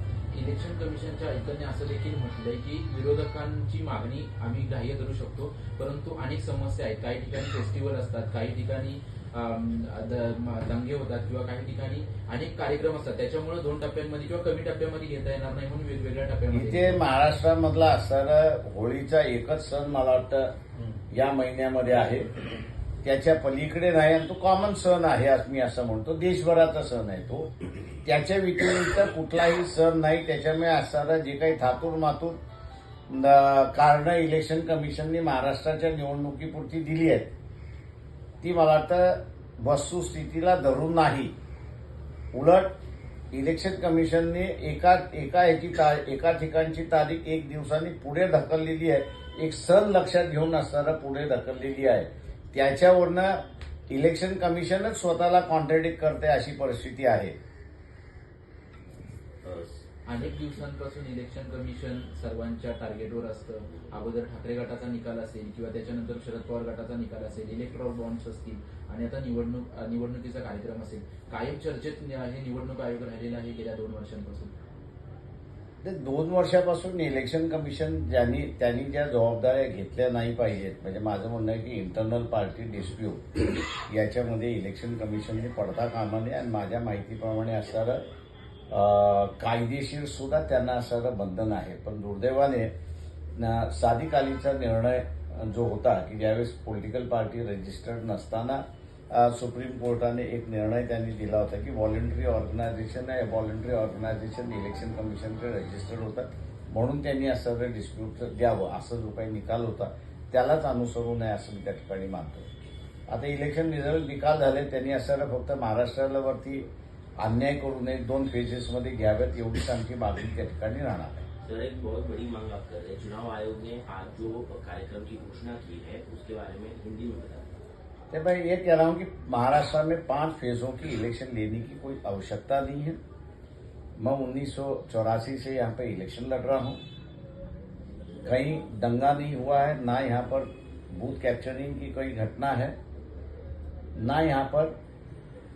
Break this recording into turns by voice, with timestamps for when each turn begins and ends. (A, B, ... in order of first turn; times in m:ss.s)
0:00.3-0:17.0 A
0:16.5-0:20.5 B
0:21.1-0:22.3 B
0:23.0-0:32.4 B
0:33.1-0:37.3 B
0:38.4-0:41.3 B
0:42.3-0:42.7 B
0:43.3-0:57.4 B
0:59.4-0:59.8 C
1:00.1-1:14.5 A
1:15.8-1:28.1 B
1:28.7-1:32.7 B
1:33.3-1:52.5 B
1:53.1-1:56.7 B
1:57.2-2:01.3 B
2:01.4-2:07.6 C
2:08.1-2:13.0 B
2:14.0-2:16.8 B
2:18.2-2:22.8 B
2:24.0-2:24.7 B